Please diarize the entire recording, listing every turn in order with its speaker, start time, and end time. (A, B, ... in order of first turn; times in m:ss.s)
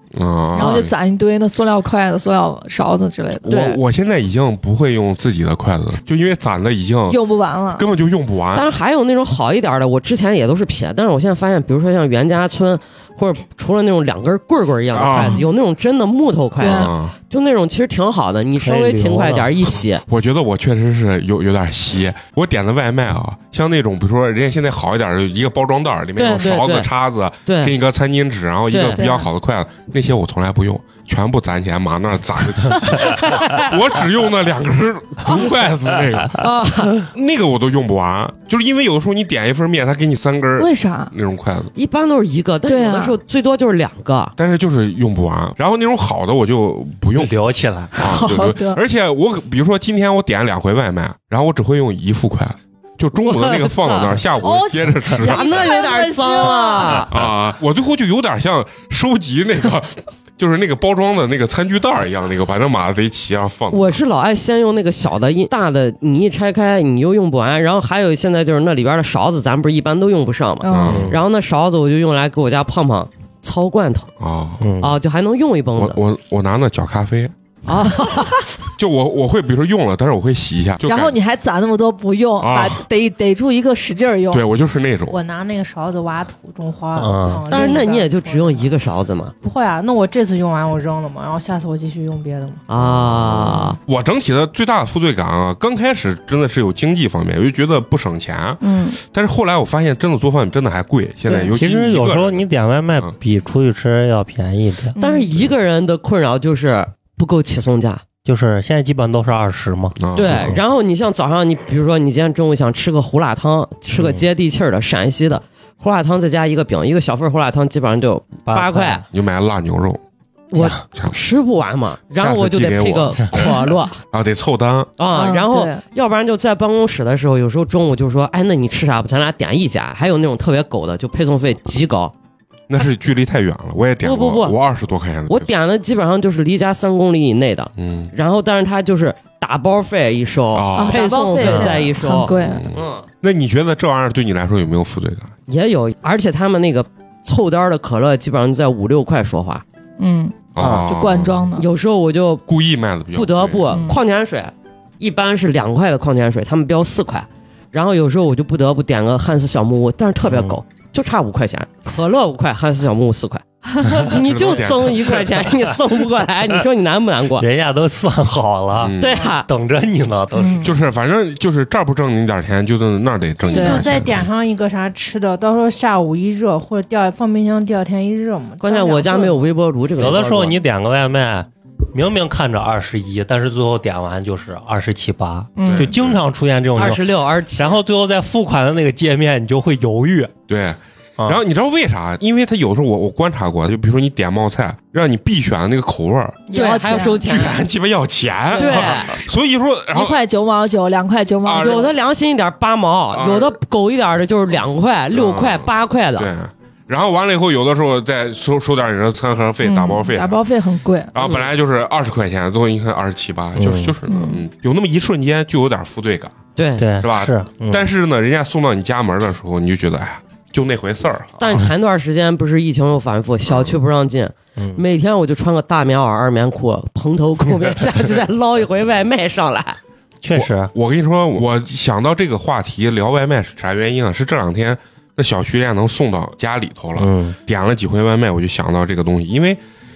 0:00.1-0:01.0 A
0:00.6-0:03.5 B
0:03.5-0:07.2 A
0:03.5-0:03.8 C
0:07.1-0:07.9 B
0:07.8-0:08.7 A
0:08.5-0:20.0 C
0:14.9-0:15.4 A
0:15.1-0:15.4 B
0:16.6-0:16.9 B
0:16.6-0:17.2 A
0:18.6-0:19.6 D
0:20.1-0:36.4 A
0:26.2-0:26.9 C
0:27.5-0:27.7 C
0:28.7-0:29.1 C
0:29.0-0:29.3 B
0:33.0-0:33.6 C
0:36.4-0:37.0 C
0:37.0-0:41.7 A
0:40.6-0:41.1 B
0:41.8-0:44.3 C
0:42.7-0:43.2 B
0:44.4-0:47.4 A
0:47.2-0:47.9 D
0:47.9-0:55.7 A
0:48.0-0:48.8 B
0:53.2-0:54.2 C
0:54.4-0:57.1 B
0:55.2-0:57.1 C
0:57.1-1:04.0 A
1:03.7-1:14.1 C
1:10.6-1:11.0 B
1:10.7-1:11.2 A
1:10.9-1:11.2 D
1:14.2-1:14.7 A
1:14.6-1:14.9 D
1:14.8-1:16.0 C
1:15.8-1:17.3 A
1:17.7-1:18.4 C
1:18.8-1:21.2 A
1:20.8-1:24.4 B
1:22.4-1:22.9 A
1:24.3-1:25.2 A
1:25.1-1:28.8 E
1:27.0-1:27.5 D
1:27.5-1:29.3 C
1:29.4-1:32.6 E
1:32.7-1:33.8 C
1:32.8-1:42.4 A
1:38.6-1:39.0 B
1:41.5-1:45.0 D
1:45.0-1:45.3 B
1:45.0-1:48.0 C
1:48.2-1:50.6 D
1:50.0-1:50.6 A
1:50.1-1:59.0 C
1:58.5-1:59.0 D
1:59.1-2:00.0 A
2:00.5-2:04.0 C
2:02.1-2:03.6 A
2:04.1-2:04.9 A
2:05.0-2:12.1 C
2:05.1-2:05.8 B
2:12.7-2:15.5 A
2:14.0-2:14.6 C
2:15.3-2:23.1 C
2:17.8-2:18.1 A
2:20.5-2:25.3 A
2:20.8-2:22.7 B
2:25.5-2:29.6 C
2:30.0-2:31.7 B
2:30.6-2:31.4 A
2:30.6-2:30.9 C
2:31.6-2:32.4 C
2:32.5-2:33.7 A
2:33.1-2:47.5 C
2:33.7-2:34.0 B
2:44.0-2:45.4 A
2:47.4-2:50.7 D
2:48.8-2:49.3 A
2:49.0-2:49.5 C
2:50.3-2:50.7 B
2:50.6-2:54.2 A
2:53.5-2:53.9 B
2:53.5-2:59.5 E
2:58.6-3:00.6 C
3:00.0-3:10.3 D
3:05.6-3:05.9 B
3:05.6-3:06.2 A
3:06.8-3:07.8 C
3:10.5-3:16.4 A
3:16.5-3:17.2 B
3:16.5-3:17.6 C
3:17.0-3:20.2 A
3:18.6-3:19.2 C
3:18.7-3:19.0 D
3:19.9-3:21.9 B
3:21.4-3:21.9 A
3:21.6-3:26.3 C
3:23.1-3:23.6 A
3:25.1-3:30.4 A
3:29.6-3:31.1 B
3:31.1-3:36.4 A
3:31.2-3:31.5 C
3:33.6-3:34.0 D
3:34.1-3:34.4 B
3:36.6-3:36.9 C
3:36.8-3:37.8 D
3:37.0-3:41.4 A
3:41.4-3:49.8 C
3:43.5-3:43.8 A
3:44.6-3:44.8 D
3:50.2-3:50.7 D
3:50.3-3:59.6 A
3:57.0-3:57.4 D